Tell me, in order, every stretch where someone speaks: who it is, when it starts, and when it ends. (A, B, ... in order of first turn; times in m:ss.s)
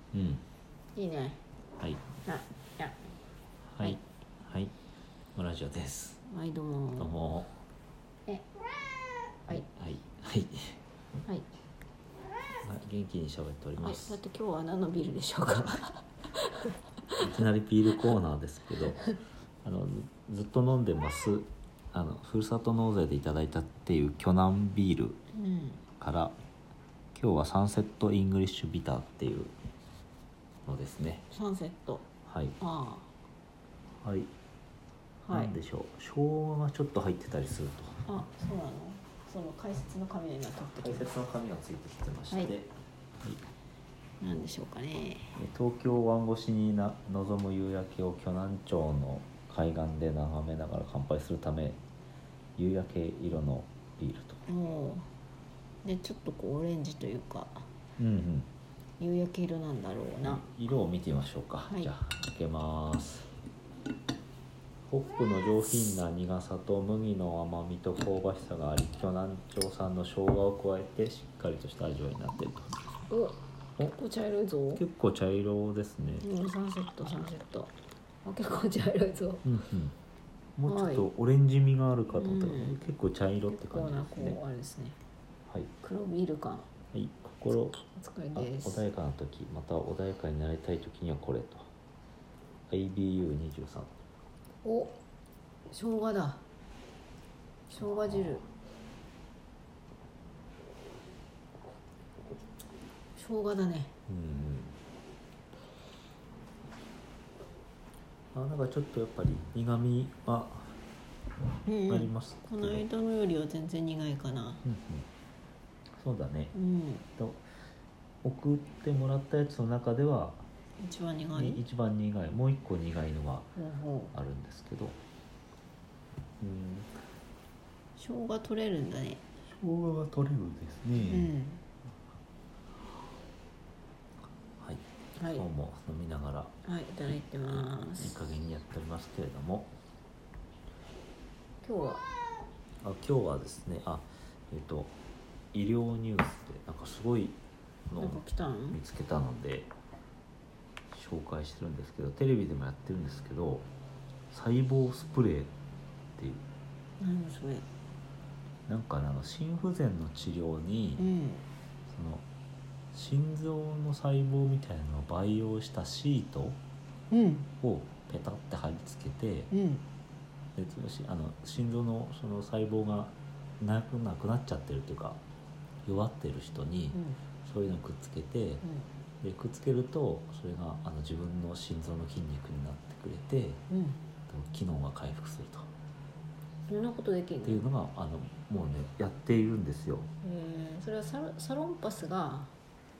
0:00.1-0:00.4 A
0:00.9-0:01.4 B
0:01.8-0:02.0 A
0:02.2-0:03.1 B
0:03.7-0:04.7 A
0:05.3-0:06.2 A
0:06.2-0:07.1 B
0:07.0-0:07.5 A
0:09.5-0:10.8 A
0:12.6-0:14.2 A
0:13.8-0:17.2 B
0:17.2-0:19.0 A
0:19.6-0:25.2 A
0:25.3-0:25.8 B
0:26.0-0:26.3 A
0:27.1-0:29.5 A
0:30.6-0:31.2 A
0:31.3-0:32.0 B
0:32.2-0:32.6 A
0:32.6-0:33.1 B
0:34.0-0:34.3 A
0:35.2-0:35.5 B
0:35.3-0:38.0 A
0:38.0-0:41.1 B
0:40.8-0:42.7 A
0:44.2-0:45.4 B
0:45.3-0:51.8 A
0:52.6-0:54.4 A
0:54.4-0:55.1 B
0:55.8-0:57.7 B
0:58.0-0:58.5 A
0:59.0-1:00.4 B
1:00.2-1:03.3 A
1:01.7-1:01.9 B
1:04.9-1:12.7 A
1:13.1-1:14.8 B
1:14.7-1:16.3 A
1:16.2-1:17.7 B
1:18.2-1:19.4 B
1:19.4-1:19.9 A
1:20.6-1:24.4 A
1:20.6-1:21.1 B
1:22.1-1:22.8 B
1:23.5-1:25.0 B
1:25.8-1:26.7 B
1:26.9-1:27.8 A
1:27.9-1:28.8 B
1:28.3-1:31.7 A
1:32.7-1:33.9 A
1:34.6-1:35.0 B
1:35.7-1:36.4 B
1:37.7-1:38.4 B
1:37.8-1:38.2 A
1:43.1-1:43.9 B
1:44.1-1:44.8 A
1:48.3-1:50.8 A
1:51.6-1:54.6 B
1:51.9-1:52.8 A
1:54.6-1:55.0 A
1:56.0-1:56.5 A
1:56.5-1:57.0 B
1:57.2-1:57.4 A
1:58.2-2:00.4 A
2:00.8-2:01.6 B
2:01.3-2:03.5 A
2:03.6-2:04.1 B
2:04.1-2:05.0 A
2:06.4-2:06.9 A
2:08.0-2:09.2 B
2:09.4-2:11.3 A
2:11.0-2:11.6 B
2:15.2-2:15.5 B
2:15.3-2:16.5 A
2:16.6-2:18.3 B
2:17.4-2:19.7 A
2:21.6-2:22.0 B
2:22.8-2:24.9 A
2:25.5-2:29.7 A
2:28.0-2:28.8 B
2:30.9-2:33.7 A
2:34.3-2:35.5 A
2:36.2-2:36.4 A
2:37.0-2:37.7 B
2:38.7-2:41.1 A
2:41.0-2:41.4 B
2:41.9-2:42.2 A
2:42.9-2:46.6 A
2:47.1-2:47.5 B
2:47.6-2:49.5 A
2:49.5-2:49.8 B
2:50.6-2:55.2 A
2:55.8-2:58.6 A
2:56.9-2:57.2 B
2:58.6-2:58.9 B
2:59.2-3:03.6 A
3:03.7-3:04.0 B
3:04.3-3:05.7 A
3:06.7-3:07.6 B
3:07.4-3:10.1 A
3:10.2-3:12.5 B